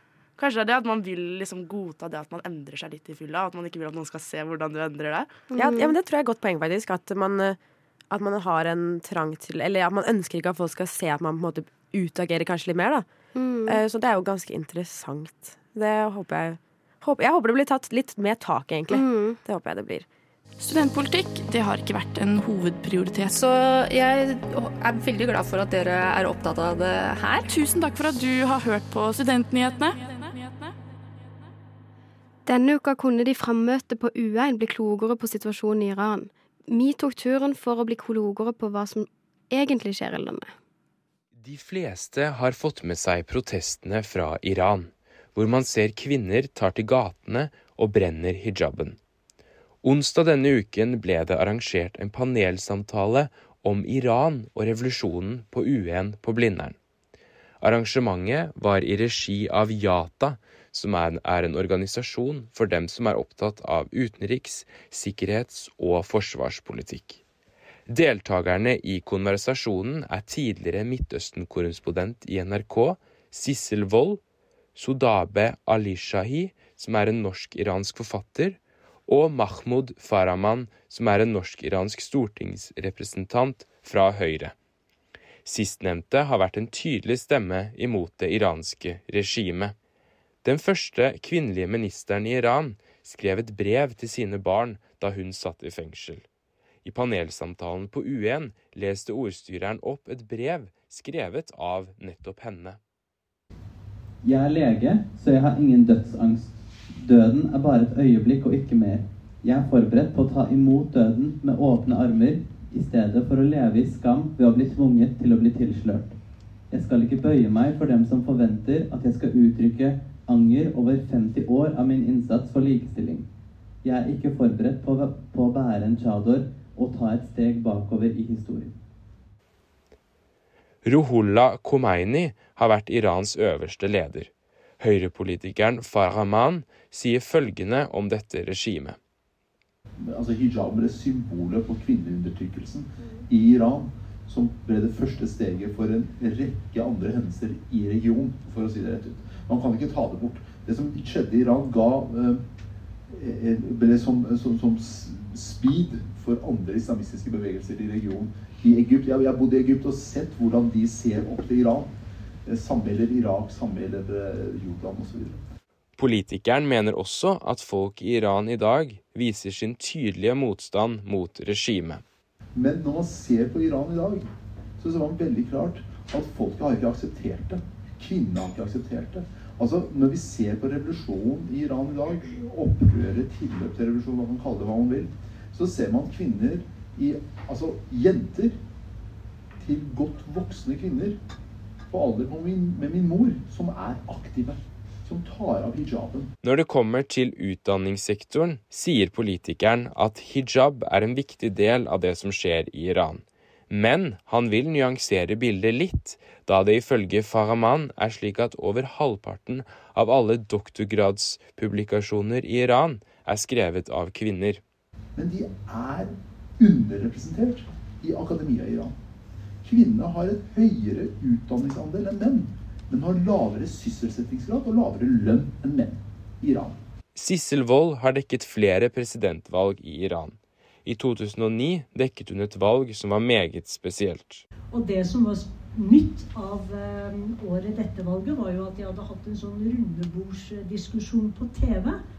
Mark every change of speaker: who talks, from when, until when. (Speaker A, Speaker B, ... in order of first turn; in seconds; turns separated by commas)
Speaker A: 0.4-5.3, Speaker B: 5.5-5.9, Speaker C: 5.5-7.6, Speaker C: 8.1-13.1, Speaker B: 13.3-13.8, Speaker C: 13.7-20.1, Speaker B: 18.9-19.4, Speaker D: 20.6-23.3, Speaker E: 23.3-27.5, Speaker D: 27.5-30.7, Speaker B: 32.5-40.5, Speaker F: 41.4-49.0, Speaker F: 49.8-56.8, Speaker F: 57.6-67.2, Speaker F: 67.9-74.2, Speaker F: 74.8-84.5, Speaker F: 85.4-89.7, Speaker F: 90.4-96.2, Speaker F: 96.8-102.8, Speaker G: 104.2-116.1, Speaker G: 116.7-123.3, Speaker G: 123.8-128.7, Speaker F: 130.8-139.0, Speaker H: 140.0-152.4, Speaker H: 153.1-161.9, Speaker H: 162.4-165.4, Speaker F: 166.0-172.0, Speaker H: 172.5-188.6, Speaker H: 189.6-191.2, Speaker H: 191.9-196.3, Speaker F: 196.4-214.6, Speaker H: 215.2-218.9, Speaker H: 219.6-226.8, Speaker F: 227.2-234.4, Speaker I: 234.7-242.0